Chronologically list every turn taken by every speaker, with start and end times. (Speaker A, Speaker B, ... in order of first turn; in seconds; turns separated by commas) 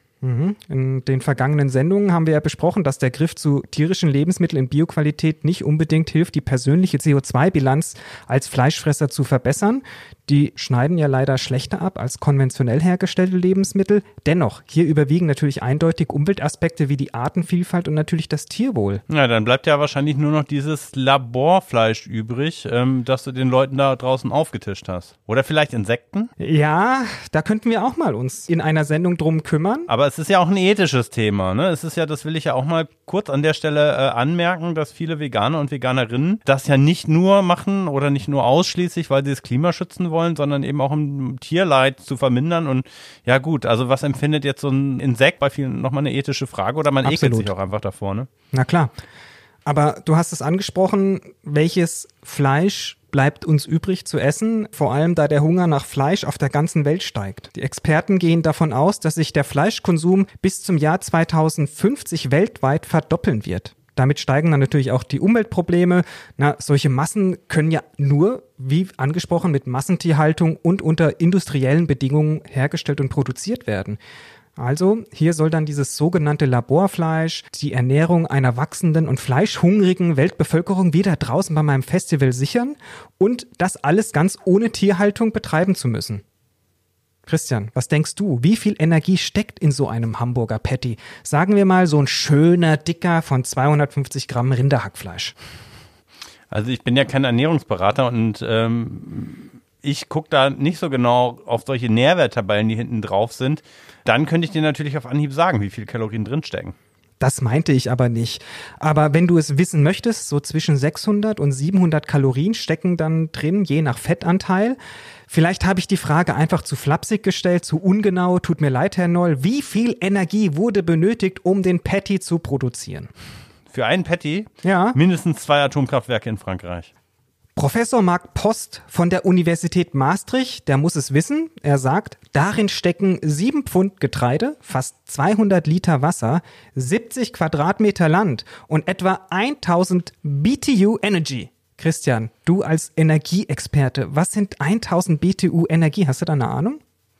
Speaker A: 0.2-19.0, Speaker B: 19.1-26.3, Speaker A: 26.4-29.9, Speaker B: 29.9-48.3, Speaker A: 47.0-47.5, Speaker A: 48.5-48.9, Speaker A: 49.6-74.0, Speaker A: 74.6-86.2, Speaker A: 87.2-95.3, Speaker B: 96.5-106.8, Speaker A: 107.2-114.8, Speaker A: 115.3-123.1, Speaker B: 123.7-126.9, Speaker A: 124.6-125.0, Speaker A: 127.6-146.8